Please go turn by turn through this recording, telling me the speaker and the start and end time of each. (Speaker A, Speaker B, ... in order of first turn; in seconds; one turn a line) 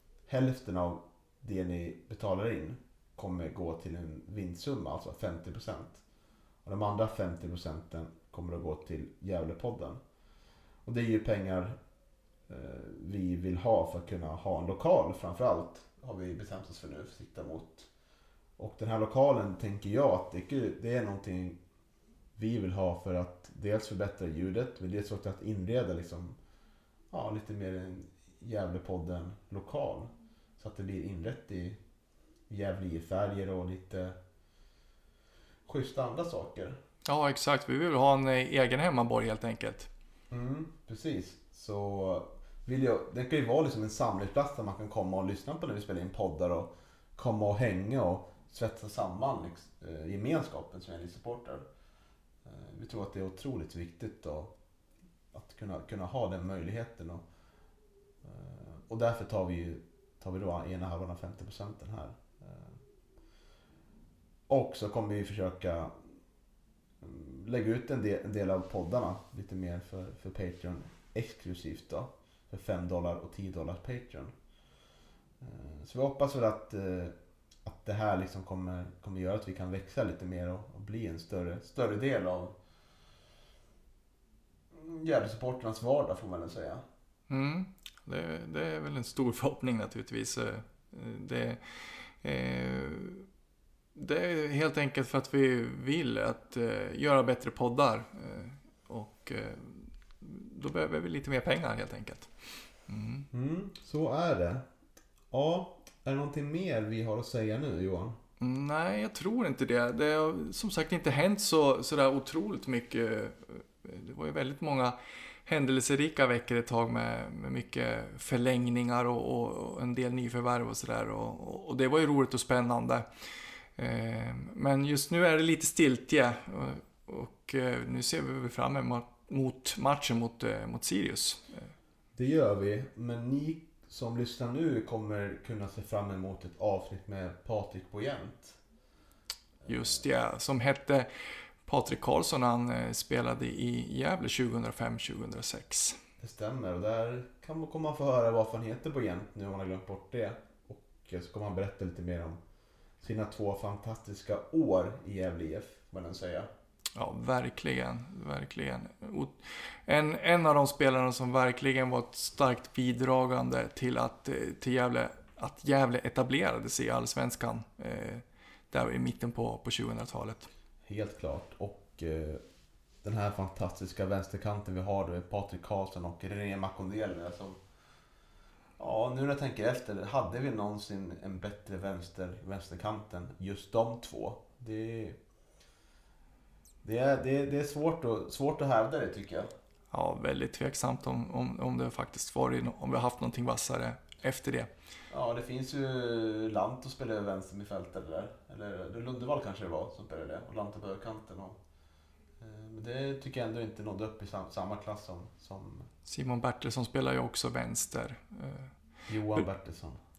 Speaker A: 0.3-6.0
Speaker A: 6.6-10.0
Speaker A: 10.8-11.8
Speaker A: 12.5-17.9
Speaker A: 18.6-21.6
Speaker A: 22.4-26.4
Speaker A: 27.1-31.8
Speaker A: 32.5-34.2
Speaker A: 35.6-36.8
Speaker B: 37.1-39.9
Speaker A: 40.3-51.6
Speaker A: 52.5-54.5
Speaker A: 55.3-57.2
Speaker A: 58.2-62.8
Speaker A: 64.5-65.9
Speaker A: 67.0-74.3
Speaker A: 75.4-82.5
Speaker A: 84.7-86.8
Speaker B: 87.3-93.3
Speaker B: 94.0-103.3
Speaker A: 103.3-104.6
Speaker A: 105.3-108.2
Speaker B: 108.4-123.1
Speaker B: 123.8-131.7
Speaker A: 132.1-138.6
Speaker A: 139.6-140.0
Speaker B: 139.7-141.1
Speaker B: 141.6-146.0
Speaker A: 146.2-152.4
Speaker A: 153.0-156.5
Speaker B: 156.9-170.5
Speaker A: 170.9-172.4
Speaker A: 173.0-177.6
Speaker A: 178.8-185.2
Speaker A: 186.8-189.5
Speaker B: 189.9-194.7
Speaker A: 195.1-201.6
Speaker A: 202.4-205.9
Speaker B: 206.1-208.7
Speaker A: 209.1-210.0